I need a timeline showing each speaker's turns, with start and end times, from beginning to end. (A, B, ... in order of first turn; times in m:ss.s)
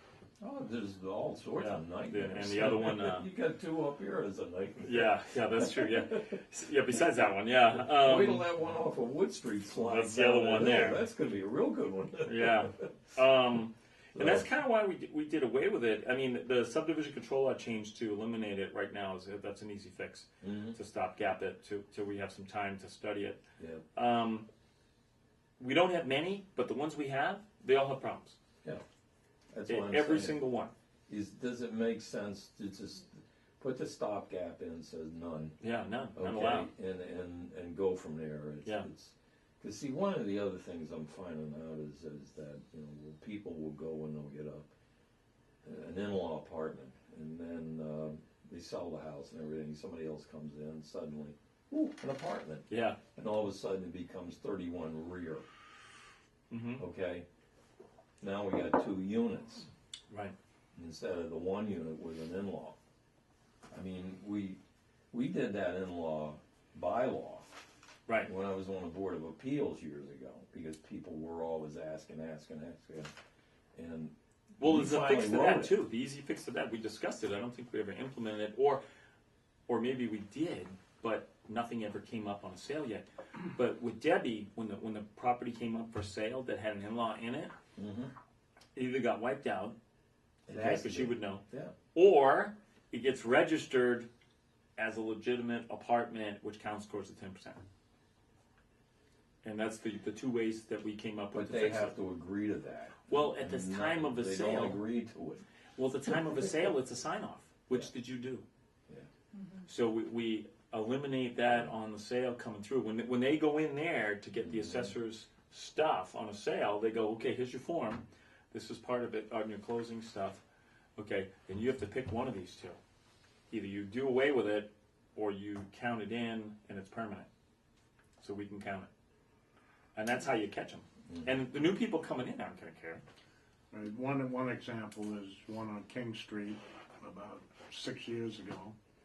0:00.4-0:05.1 A
0:01.6-0:03.3 B
0:04.8-0:08.5 B
0:05.8-0:06.1 A
0:07.9-0:12.9 A
0:09.7-0:11.0 B
0:12.2-0:23.4 B
0:14.1-0:14.5 A
0:20.4-0:20.8 A
0:23.6-0:23.8 A
0:24.0-0:24.5 B
0:25.6-0:28.4 B
0:29.5-0:30.4 A
0:29.7-0:30.7 B
0:31.1-0:35.6 A
0:35.6-0:36.7 B
0:36.2-0:44.7 A
0:45.6-0:55.5 A
0:52.7-0:53.0 B
0:56.5-0:56.8 B
0:56.8-0:57.3 A
0:58.2-0:59.7 A
1:00.8-1:02.8 A
1:03.7-1:04.6 A
1:05.1-1:07.6 A
1:08.2-1:13.1 A
1:13.8-1:15.8 A
1:14.6-1:18.8 B
1:19.7-1:27.5 B
1:27.8-1:28.1 A
1:28.8-1:29.8 B
1:30.5-1:31.8 A
1:30.5-1:34.1 B
1:34.8-1:37.6 B
1:39.4-1:42.0 B
1:41.3-1:45.4 A
1:43.1-1:44.8 B
1:45.8-1:48.4 B
1:49.6-2:00.4 B
1:54.4-1:54.9 A
2:01.0-2:02.8 B
2:03.5-2:07.3 B
2:08.2-2:08.9 B
2:10.0-2:13.0 B
2:13.7-2:18.8 C